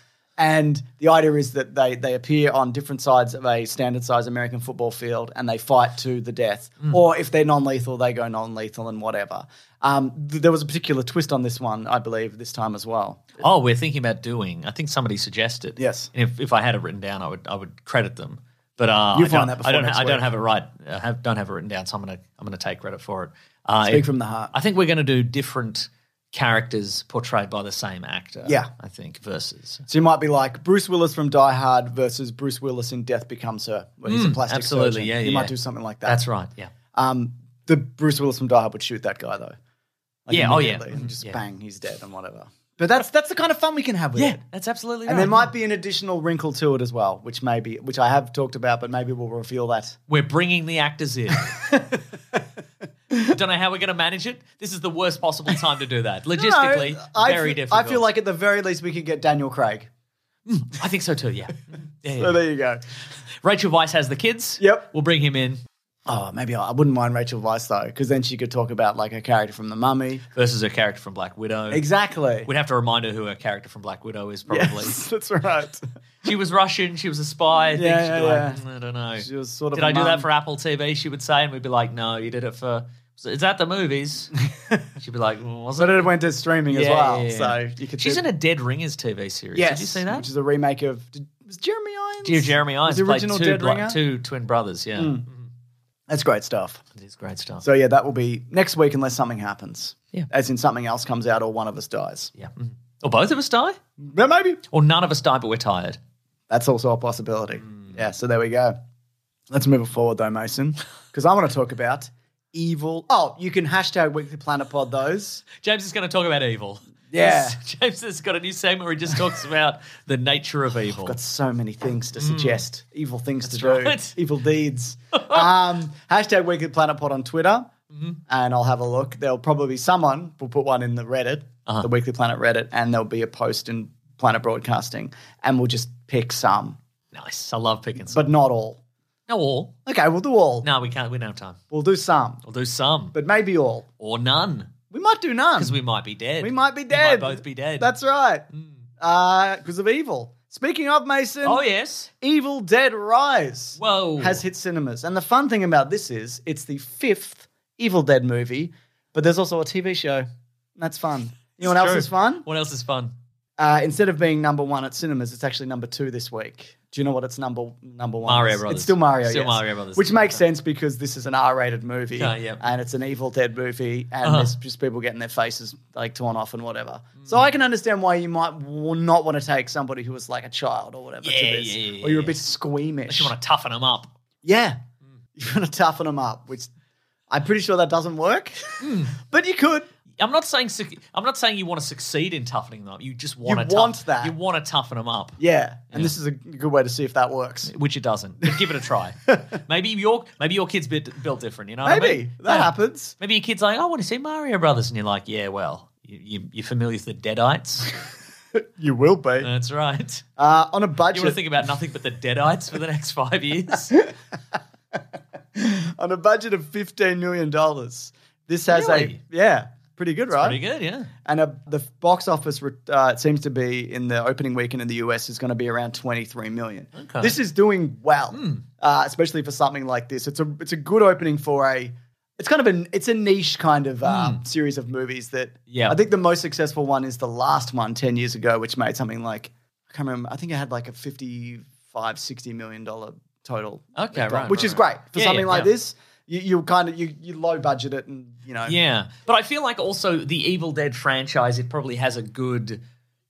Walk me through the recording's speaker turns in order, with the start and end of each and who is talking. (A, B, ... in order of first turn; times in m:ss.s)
0:00.4-0:13.4 A
0:13.4-0:29.8 B
0:15.8-0:16.1 A
0:19.1-0:20.2 A
0:23.8-0:24.5 A
0:28.4-0:28.7 A
0:29.9-0:36.2 A
0:34.1-0:35.5 B
0:36.0-0:36.7 B
0:36.9-0:39.6 A
0:40.3-0:44.4 A
0:40.3-0:41.4 B
0:44.2-0:45.5 B
0:45.1-0:50.0 A
0:50.1-0:51.7 B
0:51.5-0:52.4 A
0:53.2-0:58.0 B
0:56.3-0:59.9 A
1:00.5-1:02.4 B
1:02.1-1:02.8 A
1:03.4-1:05.6 B
1:04.6-1:04.9 A
1:06.1-1:10.3 A
1:10.4-1:11.8 B
1:11.7-1:12.5 A
1:12.5-1:15.0 B
1:14.5-1:15.8 A
1:16.2-1:24.3 B
1:17.7-1:18.6 A
1:19.2-1:20.3 A
1:24.6-1:24.8 A
1:25.0-1:26.1 B
1:25.8-1:28.2 A
1:26.7-1:30.3 B
1:29.6-1:34.0 A
1:32.2-1:35.5 B
1:35.0-1:35.3 A
1:36.1-1:36.8 A
1:37.0-1:37.7 B
1:37.6-1:42.3 A
1:42.4-1:43.8 B
1:44.0-1:44.6 A
1:44.7-1:46.0 B
1:46.5-1:48.8 A
1:47.7-1:48.0 B
1:49.5-1:55.4 A
1:55.5-2:01.2 B
1:57.1-1:57.6 A
2:00.9-2:07.7 A
2:02.2-2:02.6 B
2:03.4-2:04.2 B
2:05.2-2:05.5 B
2:07.9-2:08.2 B
2:08.3-2:16.8 A
2:17.1-2:18.2 B
2:18.1-2:18.8 A
2:19.3-2:19.8 B
2:19.9-2:20.7 A
2:20.6-2:21.6 B
2:21.7-2:22.4 A
2:22.5-2:23.2 B
2:23.1-2:23.9 A
2:24.0-2:24.7 B
2:24.9-2:25.8 A
2:25.6-2:27.9 B
2:26.4-2:28.5 A
2:29.0-2:31.6 A
2:31.4-2:32.1 B
2:32.2-2:42.5 A
2:33.8-2:34.4 B
2:41.6-2:43.1 B
2:43.6-3:03.3 A
2:48.2-2:50.4 B
2:52.2-2:52.6 B
2:54.2-2:54.5 B
3:01.2-3:02.4 B
3:03.1-3:04.1 B
3:04.4-3:04.8 A
3:05.4-3:06.7 A
3:07.3-3:09.9 A
3:08.8-3:09.2 B
3:10.2-3:15.4 B
3:13.4-3:14.4 A
3:15.4-3:17.7 A
3:17.7-3:28.0 B
3:21.8-3:23.2 A
3:28.6-3:29.5 A
3:29.4-3:30.2 B
3:30.4-3:31.4 A
3:31.1-3:34.0 B
3:35.6-3:40.6 A
3:38.7-3:39.2 B
3:40.3-3:41.1 B
3:41.2-4:08.8 A
3:47.0-3:47.4 B
3:48.3-3:48.6 B
3:54.0-3:54.4 B
3:55.7-3:56.0 B
4:04.0-4:05.7 B
4:08.7-4:12.8 B